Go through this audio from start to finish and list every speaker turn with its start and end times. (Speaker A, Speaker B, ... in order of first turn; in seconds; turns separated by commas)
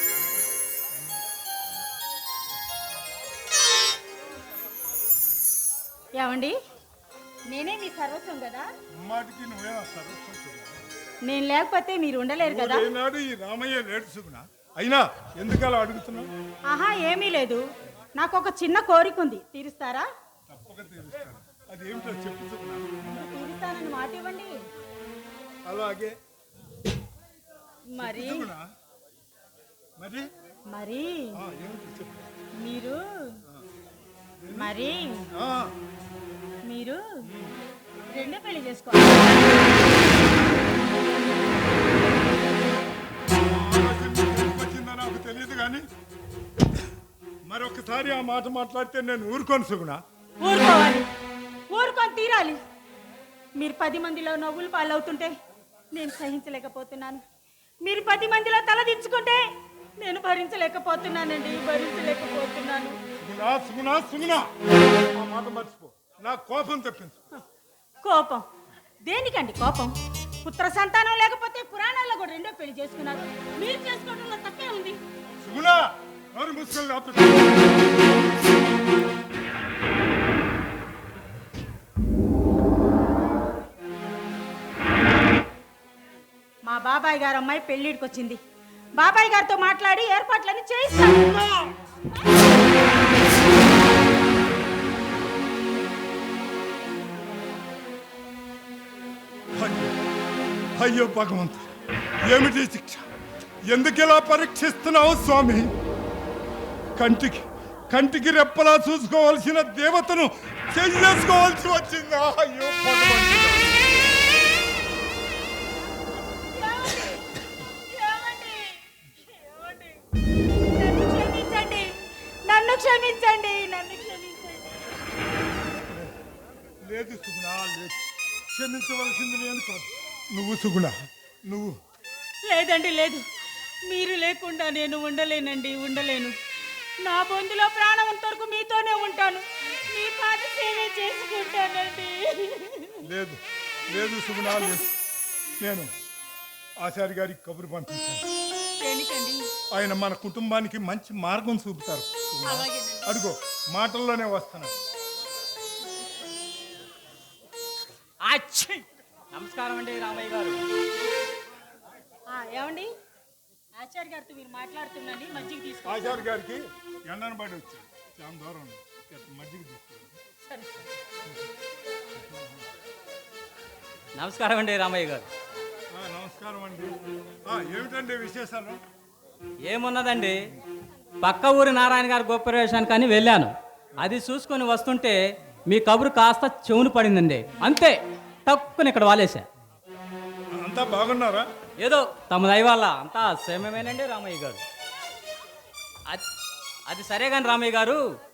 Speaker A: 0.2-1.2, Speaker B: 6.2-6.5, Speaker B: 7.5-8.7, Speaker A: 9.0-10.8, Speaker B: 11.3-12.9, Speaker A: 12.4-16.3, Speaker B: 16.7-17.6, Speaker B: 18.2-20.1, Speaker A: 20.5-23.2, Speaker B: 23.1-24.5, Speaker A: 25.7-26.1, Speaker B: 27.9-28.5, Speaker A: 28.0-28.7, Speaker A: 30.0-30.3, Speaker B: 30.7-31.3, Speaker A: 31.4-32.3, Speaker B: 32.6-33.4, Speaker A: 34.4-34.7, Speaker B: 34.5-35.3, Speaker A: 35.4-35.7, Speaker B: 36.7-37.0, Speaker A: 37.3-37.5, Speaker B: 38.1-39.6, Speaker A: 43.4-45.8, Speaker A: 47.5-50.0, Speaker B: 50.4-51.1, Speaker B: 51.7-52.6, Speaker B: 53.6-55.3, Speaker B: 55.9-57.2, Speaker B: 57.8-59.4, Speaker B: 60.0-63.0, Speaker A: 63.2-64.5, Speaker A: 65.2-67.3, Speaker B: 68.0-68.5, Speaker B: 69.1-69.9, Speaker B: 70.4-75.0, Speaker A: 75.4-77.6, Speaker B: 86.7-88.4, Speaker B: 89.0-91.7, Speaker A: 99.6-100.0, Speaker A: 100.8-101.7, Speaker A: 102.3-103.1, Speaker A: 103.7-105.7, Speaker A: 107.0-113.8, Speaker B: 116.4-120.0, Speaker B: 120.7-121.9, Speaker B: 122.5-124.8, Speaker A: 125.7-126.1, Speaker A: 126.8-131.0, Speaker A: 131.5-131.8, Speaker B: 132.5-133.2, Speaker B: 133.9-136.4, Speaker B: 137.0-143.0, Speaker A: 143.0-144.9, Speaker B: 144.4-144.7, Speaker A: 145.6-145.9, Speaker A: 146.8-148.3, Speaker B: 148.8-149.4, Speaker A: 149.7-154.8, Speaker B: 152.5-153.2, Speaker C: 158.2-160.6, Speaker B: 162.3-162.9, Speaker B: 163.8-166.3, Speaker A: 165.8-170.2, Speaker B: 170.5-170.8, Speaker C: 174.2-175.3, Speaker A: 175.9-178.8, Speaker C: 179.7-180.4, Speaker C: 181.2-185.2, Speaker C: 185.7-189.5, Speaker A: 190.5-191.5, Speaker C: 191.8-194.6, Speaker C: 196.9-198.0